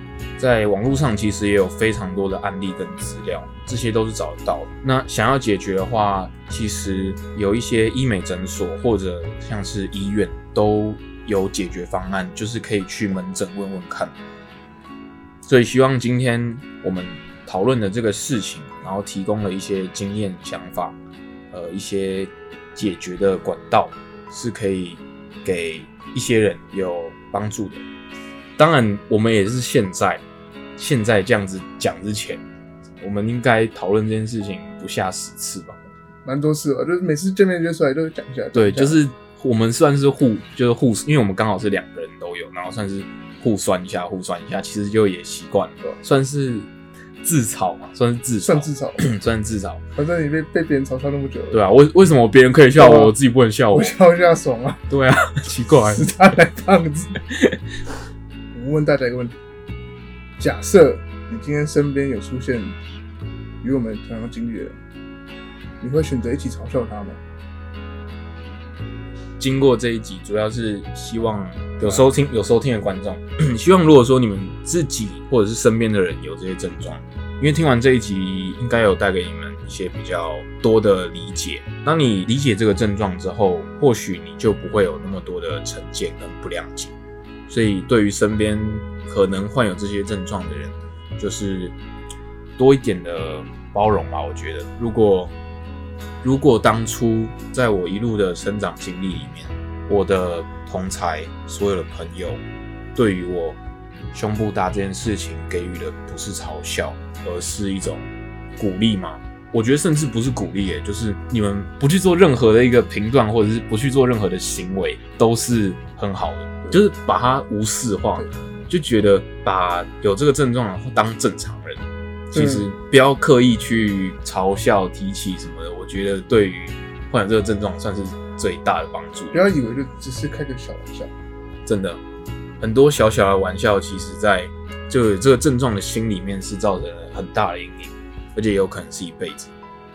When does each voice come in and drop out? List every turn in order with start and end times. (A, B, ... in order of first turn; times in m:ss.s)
0:00.4-0:14.2 A
0:15.4-0:21.0 A
0:21.5-0:27.8 A
0:28.6-0:30.2 A
0:30.8-0:32.4 A
0:33.0-0:35.8 A
0:36.2-0:39.0 B
0:38.5-0:46.7 A
0:47.2-0:49.8 A
0:48.4-0:49.1 B
0:50.0-0:51.6 B
0:51.5-0:53.9 A
0:52.8-0:53.2 B
0:53.7-0:54.8 B
0:54.9-0:56.1 A
0:55.8-0:57.2 B
0:57.3-0:57.6 A
0:58.5-0:59.4 B
1:00.4-1:02.8 B
1:03.6-1:04.8 B
1:05.8-1:07.2 B
1:09.4-1:26.9 A
1:27.5-1:31.8 A
1:32.6-1:35.3 A
1:36.2-1:42.4 A
1:43.0-1:43.6 A
1:44.1-1:48.1 A
1:48.6-2:09.4 A
2:02.3-2:02.7 B
2:09.3-2:11.1 B
2:11.7-2:12.0 A
2:12.6-2:19.5 A